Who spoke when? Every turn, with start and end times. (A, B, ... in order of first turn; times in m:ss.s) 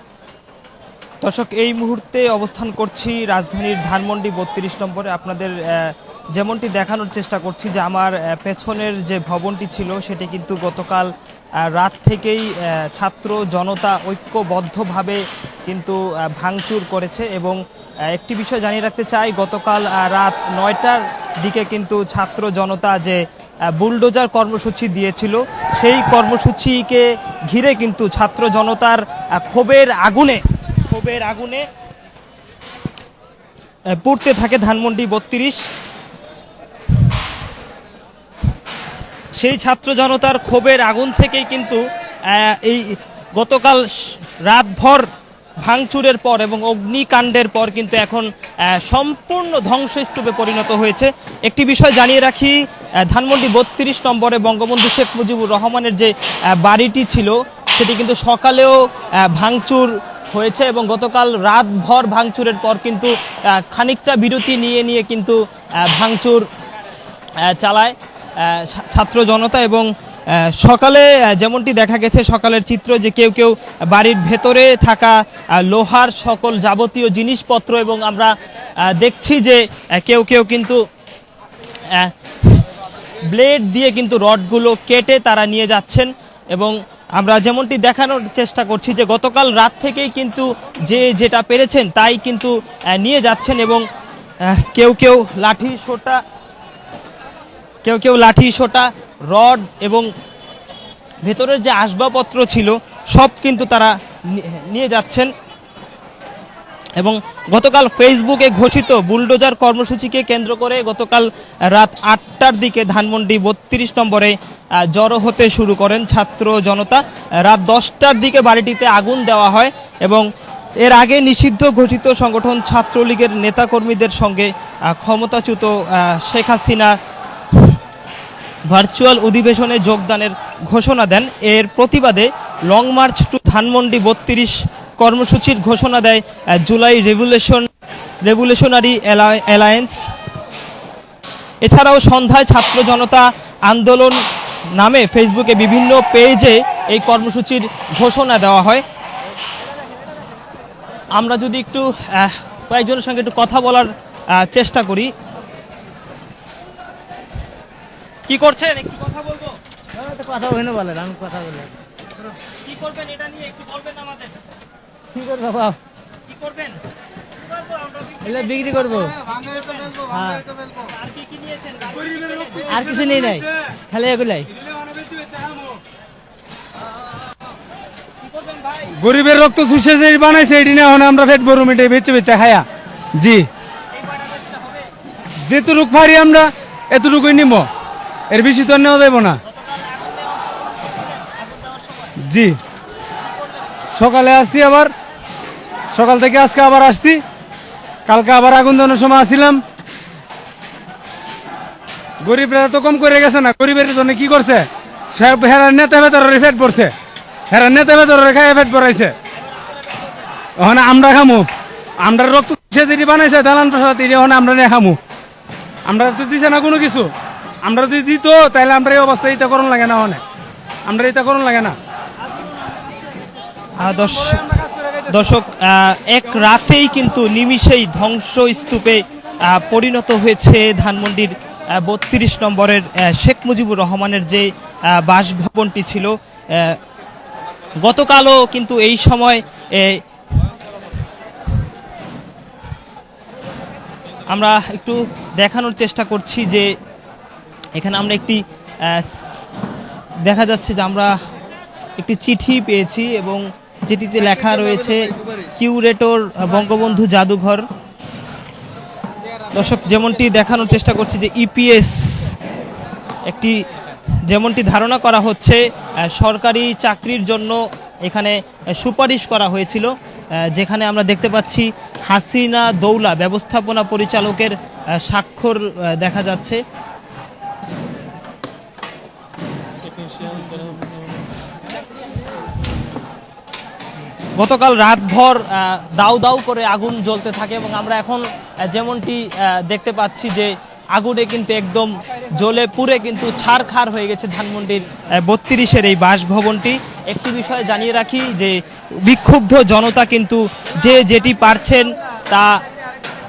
0:01.2-0:17.6 A
0:18.1-0:31.6 A
0:34.0-0:35.6 A
0:39.4-0:45.1 A
0:45.6-1:06.5 A
1:07.4-1:18.3 A
1:18.8-1:20.8 A
1:21.9-1:22.6 A
1:23.3-1:33.8 A
1:34.4-1:36.2 A
1:37.8-1:40.1 A
1:41.2-1:45.3 A
1:47.0-2:00.2 A
2:00.8-2:07.0 A
2:08.7-2:17.7 A
2:18.2-2:20.1 A
2:21.6-2:24.2 A
2:24.8-2:28.8 A
2:31.2-2:35.1 A
2:38.3-2:39.6 A
2:40.0-2:41.7 B
2:42.6-2:44.4 A
2:45.2-2:45.8 B
2:46.3-2:46.8 A
2:48.2-2:49.2 B
2:49.5-2:50.0 A
2:50.1-2:50.4 B
2:50.8-2:52.8 A
2:52.7-2:54.5 B
2:55.1-2:55.7 C
2:58.3-2:58.9 A
2:59.0-3:02.7 C
3:03.2-3:03.5 C
3:03.9-3:04.9 A
3:05.4-3:07.7 C
3:08.3-3:09.4 C
3:09.4-3:12.2 A
3:12.2-3:12.6 C
3:13.2-3:13.9 A
3:14.0-3:14.9 C
3:15.9-3:17.2 C
3:18.1-3:19.6 C
3:22.2-3:26.9 C
3:27.5-3:29.1 C
3:30.6-3:35.0 C
3:35.9-3:37.1 C
3:37.6-3:40.2 C
3:40.9-3:41.8 C
3:43.8-3:44.5 A
3:45.1-3:56.8 A
3:57.8-4:00.0 A
4:04.3-4:06.7 A
4:07.8-4:09.3 A
4:10.2-4:11.2 A
4:12.0-4:17.6 A
4:19.5-4:22.4 A
4:23.3-4:23.6 A
4:24.3-4:36.6 A
4:44.4-5:02.6 A